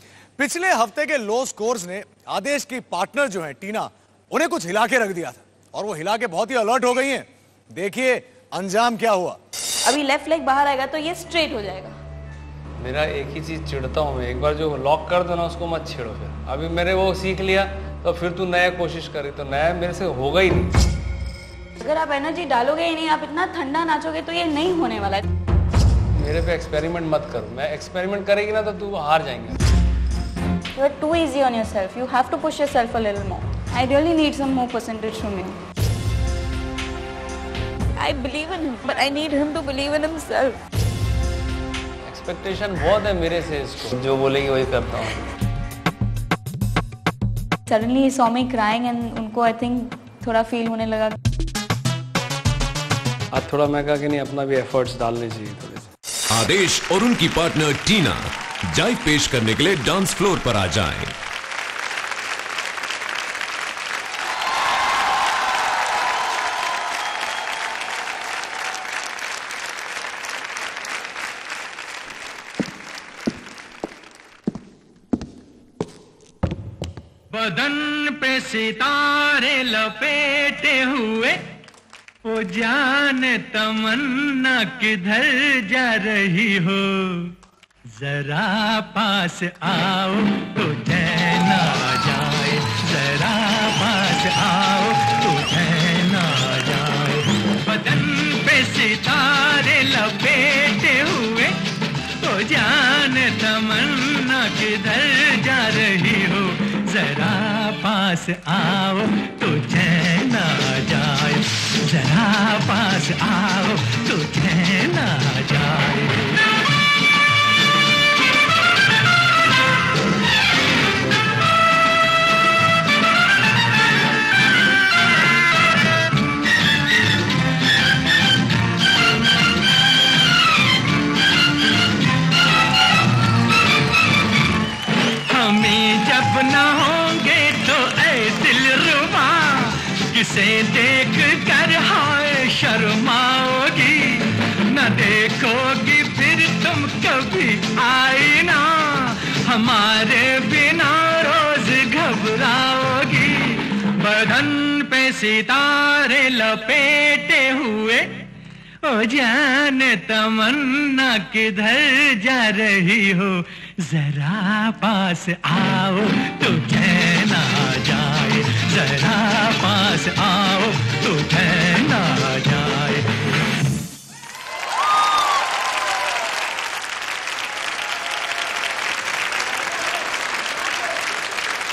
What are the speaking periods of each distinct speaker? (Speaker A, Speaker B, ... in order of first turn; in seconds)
Speaker A: 0.4-9.4
Speaker B: 9.8-11.9, 21.8-25.2, 30.8-35.6, 38.0-40.6, 47.7-51.1
Speaker C: 12.8-20.7, 26.2-29.6, 42.1-45.2, 53.3-55.9
Speaker D: 56.3-61.1
Speaker E: 77.3-81.4, 82.2-87.3, 88.0-101.6, 102.2-116.3, 135.3-158.1, 158.8-173.1